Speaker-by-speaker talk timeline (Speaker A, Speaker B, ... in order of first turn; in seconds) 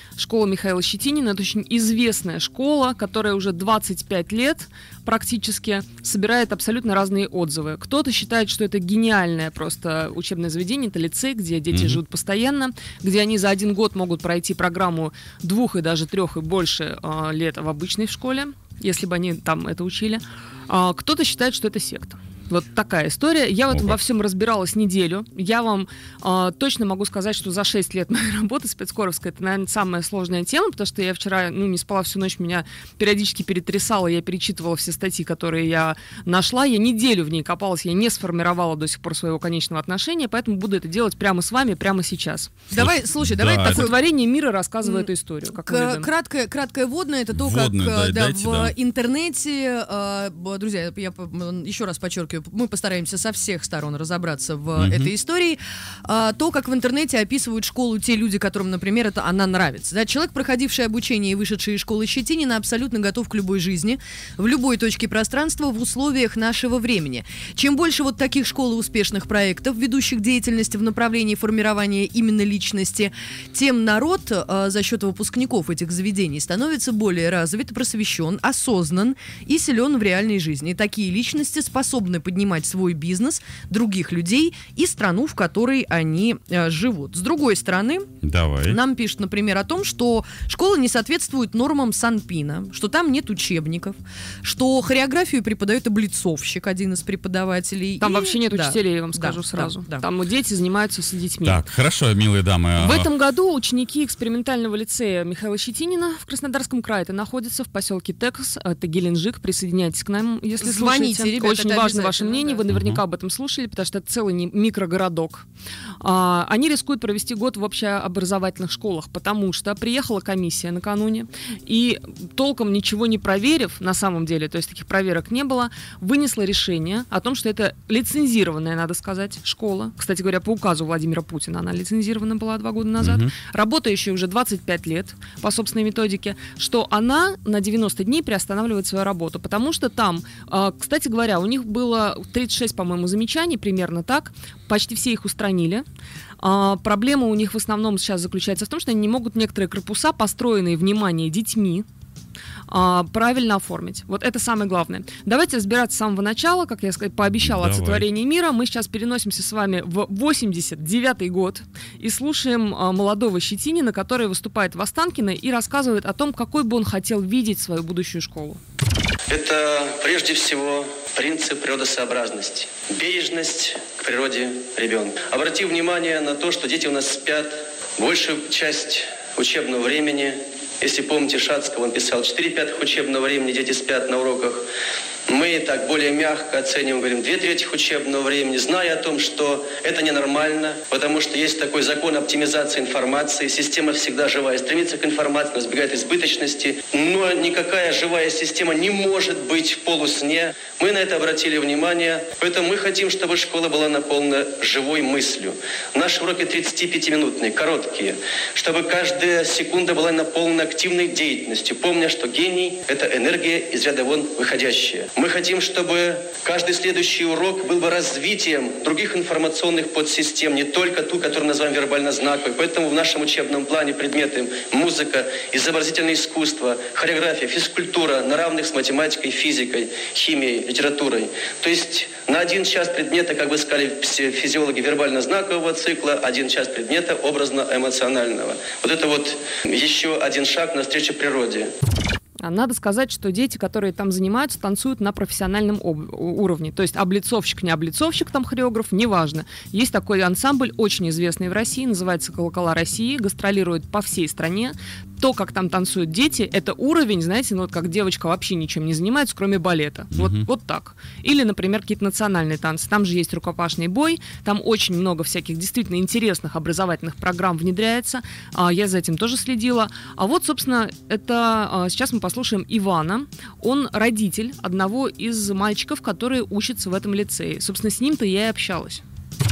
Speaker A: 0.2-42.6, 43.6-46.1, 98.0-101.6, 102.8-115.5, 116.0-145.8, 146.4-151.8, 152.7-168.6, 242.4-279.0
Speaker B: 11.7-12.0, 23.7-23.9, 42.7-43.9, 47.3-48.7, 54.8-55.1, 88.2-88.8, 101.5-103.1, 112.7-113.0, 133.0-133.3, 157.4-158.1, 260.1-260.4
Speaker C: 42.7-44.0, 44.8-88.1, 88.7-100.0, 110.6-112.6
Speaker D: 169.3-184.6, 185.3-241.7